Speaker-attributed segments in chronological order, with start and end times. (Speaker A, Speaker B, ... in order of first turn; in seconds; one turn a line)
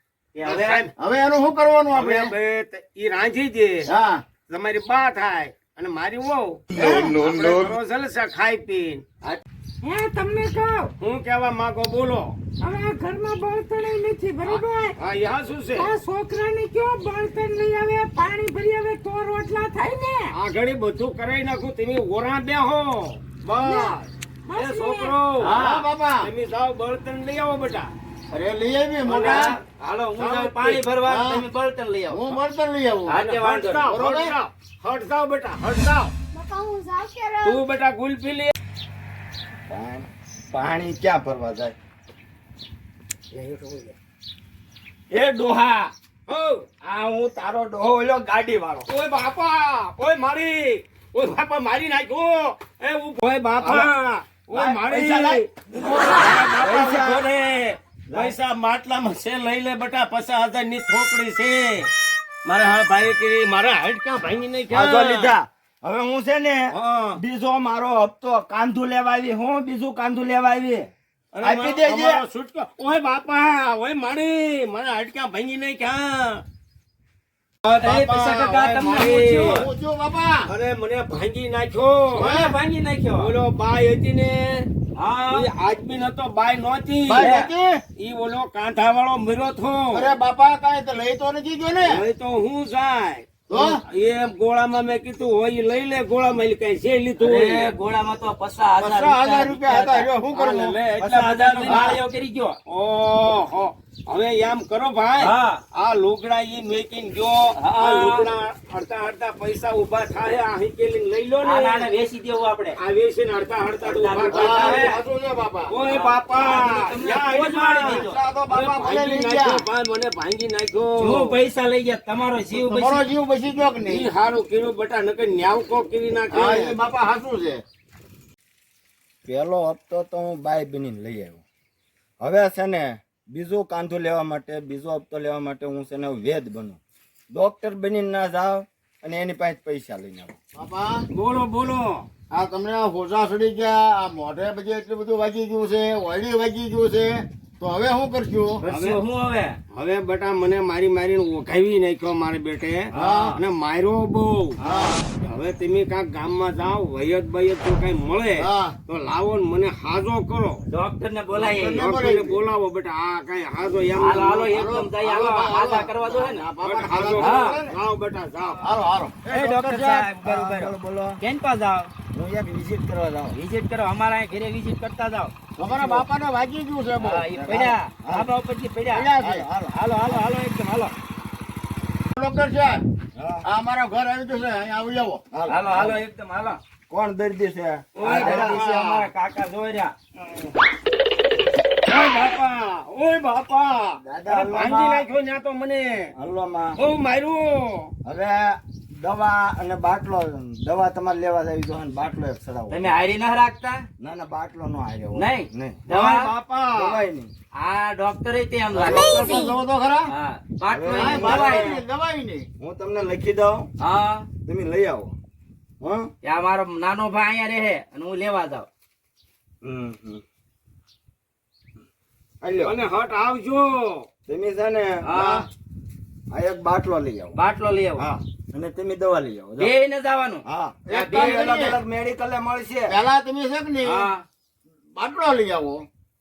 Speaker A: 0.3-0.8
Speaker B: 0.4-0.9
Speaker C: 1.0-2.3
Speaker B: 1.9-3.9
Speaker C: 3.8-4.2
Speaker B: 4.5-9.4
Speaker C: 6.7-7.7
Speaker D: 6.9-7.1
Speaker D: 9.8-10.9
Speaker B: 11.0-12.4
Speaker D: 12.6-14.9
Speaker B: 14.4-15.9
Speaker D: 15.7-20.3
Speaker B: 20.3-27.9
Speaker D: 23.6-23.9
Speaker D: 24.5-25.2
Speaker C: 25.4-26.3
Speaker C: 28.3-29.6
Speaker B: 29.0-29.6
Speaker A: 29.2-32.4
Speaker B: 30.1-30.9
Speaker C: 31.0-31.4
Speaker C: 32.1-33.2
Speaker A: 33.1-33.9
Speaker B: 33.1-36.1
Speaker C: 33.9-34.3
Speaker D: 36.3-37.6
Speaker B: 37.4-38.5
Speaker E: 39.7-41.7
Speaker B: 43.3-44.0
Speaker E: 45.1-45.9
Speaker B: 46.3-46.7
Speaker E: 46.8-48.9
Speaker B: 48.9-61.9
Speaker E: 54.5-57.2
Speaker E: 58.1-58.3
Speaker B: 62.5-65.3
Speaker E: 64.7-70.9
Speaker B: 66.7-67.2
Speaker B: 71.4-76.4
Speaker E: 71.4-72.2
Speaker A: 77.7-79.7
Speaker B: 77.7-79.7
Speaker C: 79.2-80.5
Speaker B: 80.5-82.4
Speaker C: 82.2-82.5
Speaker A: 82.2-83.3
Speaker B: 83.2-84.7
Speaker A: 84.9-85.5
Speaker B: 85.3-87.3
Speaker C: 87.1-87.8
Speaker A: 87.2-87.5
Speaker B: 88.0-90.1
Speaker C: 89.9-92.0
Speaker B: 91.8-97.7
Speaker C: 93.5-93.8
Speaker A: 97.2-100.0
Speaker C: 98.8-100.8
Speaker B: 100.3-102.0
Speaker A: 101.0-102.6
Speaker E: 101.6-102.0
Speaker B: 102.7-111.9
Speaker A: 105.2-105.6
Speaker A: 107.5-108.3
Speaker A: 111.4-112.8
Speaker B: 112.8-115.0
Speaker A: 113.8-115.0
Speaker C: 114.3-115.7
Speaker B: 115.7-121.3
Speaker A: 115.8-118.2
Speaker C: 117.6-119.6
Speaker A: 121.0-123.0
Speaker C: 122.5-124.1
Speaker B: 123.8-126.8
Speaker C: 126.3-127.6
Speaker E: 129.2-131.4
Speaker E: 132.2-136.8
Speaker E: 137.3-140.4
Speaker C: 140.5-141.1
Speaker B: 141.1-142.0
Speaker C: 142.3-148.6
Speaker A: 148.6-149.6
Speaker B: 148.6-149.0
Speaker B: 149.7-154.6
Speaker A: 152.9-153.3
Speaker C: 152.9-153.4
Speaker A: 154.6-155.0
Speaker C: 154.6-155.1
Speaker B: 155.1-160.6
Speaker C: 158.4-158.8
Speaker A: 160.7-161.9
Speaker C: 161.3-162.4
Speaker B: 161.7-164.8
Speaker A: 163.9-166.4
Speaker C: 164.5-167.7
Speaker B: 166.6-168.6
Speaker A: 167.1-167.6
Speaker C: 168.6-169.3
Speaker A: 169.3-171.9
Speaker E: 169.3-171.2
Speaker E: 172.1-173.4
Speaker A: 173.3-175.3
Speaker C: 175.6-177.2
Speaker A: 177.0-179.1
Speaker E: 177.3-178.3
Speaker C: 178.9-179.5
Speaker E: 179.2-179.8
Speaker A: 179.7-180.9
Speaker C: 182.1-182.8
Speaker E: 183.2-183.4
Speaker C: 183.4-185.3
Speaker E: 185.3-186.0
Speaker A: 185.5-186.6
Speaker E: 186.9-188.6
Speaker B: 187.9-188.8
Speaker A: 188.0-189.9
Speaker C: 188.5-189.0
Speaker B: 191.8-196.1
Speaker E: 194.0-195.1
Speaker E: 196.2-196.8
Speaker B: 196.8-197.9
Speaker E: 198.0-203.0
Speaker A: 202.7-203.9
Speaker E: 204.0-205.9
Speaker A: 205.1-206.3
Speaker B: 205.9-207.0
Speaker E: 206.7-207.3
Speaker A: 207.6-209.5
Speaker C: 208.7-210.1
Speaker D: 208.9-209.6
Speaker A: 210.1-211.7
Speaker E: 210.7-211.7
Speaker C: 210.9-212.5
Speaker E: 212.6-213.7
Speaker A: 213.8-214.3
Speaker E: 214.4-215.1
Speaker C: 215.8-216.1
Speaker A: 216.2-218.7
Speaker E: 219.6-220.2
Speaker E: 222.4-222.7
Speaker B: 222.6-224.1
Speaker E: 224.3-225.1
Speaker C: 225.1-225.4
Speaker B: 225.1-225.4
Speaker E: 226.3-227.4
Speaker A: 227.3-228.0
Speaker E: 228.0-229.7
Speaker A: 229.6-231.5
Speaker E: 230.4-232.9
Speaker C: 230.9-231.8
Speaker C: 232.9-234.1
Speaker A: 233.8-234.2
Speaker C: 234.9-235.8